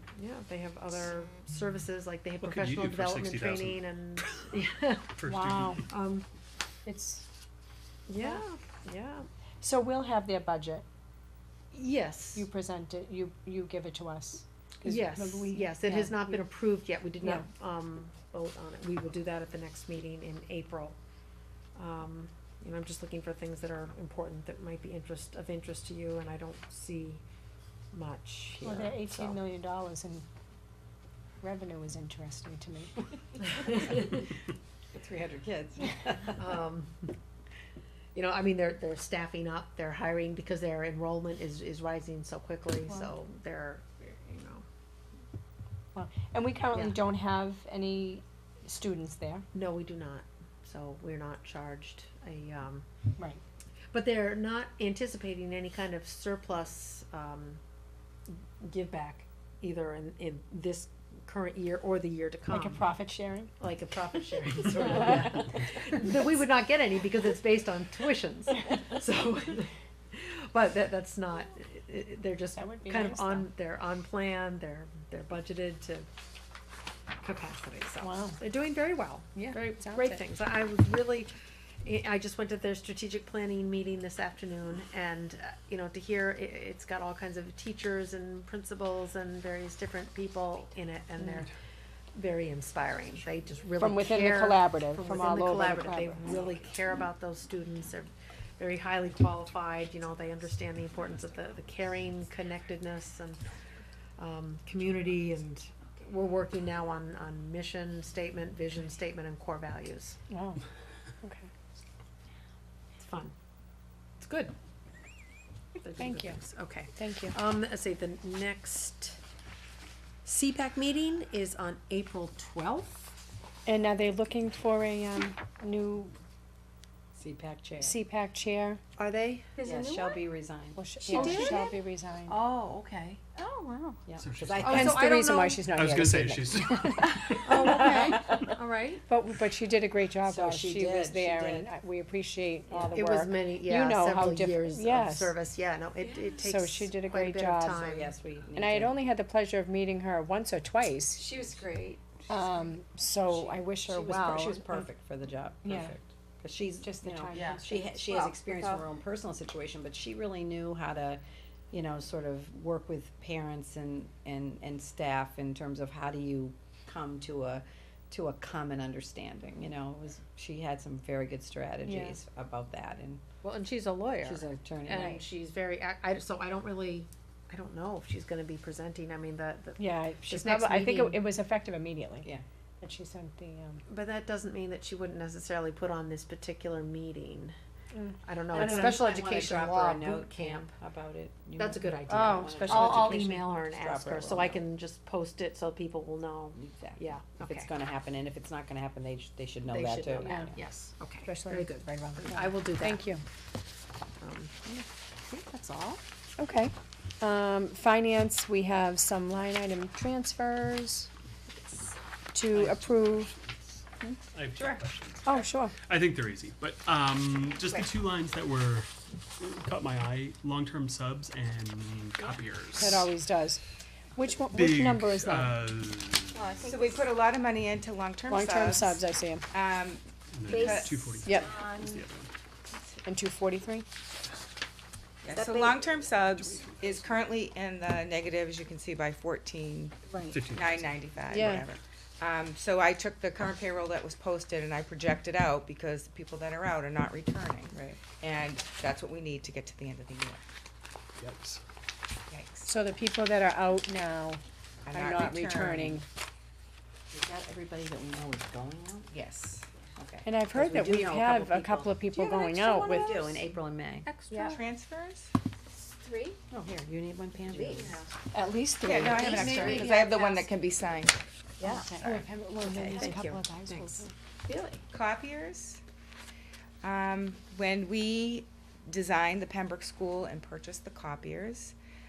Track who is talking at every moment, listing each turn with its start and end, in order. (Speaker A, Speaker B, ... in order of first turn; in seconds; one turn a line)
Speaker A: 0.1-5.2
Speaker B: 2.4-4.5
Speaker B: 5.2-5.8
Speaker C: 5.3-5.8
Speaker A: 5.8-6.3
Speaker C: 6.9-7.3
Speaker A: 8.1-9.3
Speaker C: 9.6-10.8
Speaker A: 11.7-12.5
Speaker C: 12.3-16.4
Speaker A: 14.8-21.0
Speaker C: 17.2-17.5
Speaker A: 21.8-27.2
Speaker A: 27.9-29.4
Speaker C: 28.6-30.2
Speaker C: 31.4-33.0
Speaker D: 34.9-36.4
Speaker A: 36.4-37.1
Speaker A: 38.1-44.6
Speaker C: 46.0-49.5
Speaker A: 49.5-52.9
Speaker A: 53.9-57.6
Speaker A: 58.3-62.9
Speaker C: 62.5-63.5
Speaker A: 63.6-76.1
Speaker C: 72.6-73.5
Speaker A: 77.2-81.3
Speaker C: 78.0-78.4
Speaker C: 79.3-80.2
Speaker A: 81.8-91.5
Speaker A: 92.2-103.5
Speaker C: 93.8-96.2
Speaker A: 104.2-110.2
Speaker C: 110.3-110.6
Speaker C: 111.2-111.5
Speaker A: 113.0-113.3
Speaker A: 114.2-114.5
Speaker A: 115.8-119.2
Speaker C: 116.0-116.4
Speaker C: 116.9-117.4
Speaker A: 120.2-123.2
Speaker C: 123.7-126.2
Speaker D: 127.2-128.0
Speaker C: 127.8-128.8
Speaker A: 129.0-129.5
Speaker E: 129.6-130.3
Speaker D: 129.6-130.8
Speaker C: 130.7-132.4
Speaker A: 131.1-131.7
Speaker E: 131.1-131.8
Speaker A: 132.3-133.2
Speaker E: 133.4-134.0
Speaker D: 134.1-135.0
Speaker B: 134.2-135.0
Speaker A: 134.6-135.6
Speaker C: 134.7-138.1
Speaker B: 135.7-137.6
Speaker A: 137.4-139.1
Speaker D: 137.6-138.4
Speaker C: 139.1-145.4
Speaker D: 140.2-141.7
Speaker D: 142.7-143.0
Speaker A: 142.8-148.2
Speaker E: 146.0-146.4
Speaker C: 146.4-147.8
Speaker D: 147.7-149.0
Speaker C: 148.5-151.2
Speaker E: 151.2-152.1
Speaker C: 152.3-154.9
Speaker D: 152.3-152.7
Speaker D: 153.3-173.2
Speaker C: 155.6-155.9
Speaker C: 156.8-157.9
Speaker E: 157.4-158.8
Speaker C: 171.8-172.2
Speaker A: 173.4-181.2
Speaker D: 174.2-175.2
Speaker C: 179.8-182.3
Speaker C: 182.8-183.8
Speaker A: 183.9-187.6
Speaker C: 187.9-189.0
Speaker A: 188.2-190.7
Speaker D: 188.5-194.6
Speaker A: 191.6-197.7
Speaker C: 192.1-193.2
Speaker D: 196.6-200.4
Speaker A: 199.7-203.1
Speaker C: 200.2-200.6
Speaker C: 201.2-203.2
Speaker A: 204.2-204.7
Speaker A: 205.2-206.0
Speaker C: 206.4-211.1
Speaker C: 212.3-213.3
Speaker B: 212.5-223.1
Speaker F: 214.6-214.8
Speaker C: 215.2-215.7
Speaker C: 222.8-223.6
Speaker C: 224.2-225.6
Speaker B: 224.5-226.7
Speaker E: 226.3-227.1
Speaker F: 226.7-229.0
Speaker C: 228.3-229.5
Speaker F: 229.5-231.1
Speaker B: 230.3-232.3
Speaker E: 230.4-232.0
Speaker C: 231.2-231.6
Speaker C: 233.0-233.9
Speaker F: 235.2-240.0
Speaker E: 235.3-235.8
Speaker B: 235.8-237.2
Speaker E: 240.1-240.5
Speaker B: 240.3-241.0
Speaker F: 240.5-250.4
Speaker C: 241.3-241.7
Speaker D: 247.7-248.0
Speaker B: 251.2-251.6
Speaker F: 252.3-252.7
Speaker C: 252.7-254.4
Speaker F: 254.9-256.0
Speaker C: 254.9-256.1
Speaker D: 257.1-259.1
Speaker F: 259.1-259.7
Speaker D: 260.0-264.1
Speaker C: 260.2-263.3
Speaker A: 264.1-264.6
Speaker E: 264.3-264.6
Speaker F: 264.3-265.3
Speaker E: 265.9-266.4
Speaker D: 266.5-268.0
Speaker E: 267.6-268.1
Speaker C: 268.3-269.9
Speaker F: 268.8-272.2
Speaker A: 269.0-270.4
Speaker E: 269.5-270.4
Speaker C: 271.6-274.1
Speaker D: 272.6-273.2
Speaker A: 272.7-274.7
Speaker F: 274.9-275.8
Speaker F: 276.8-281.8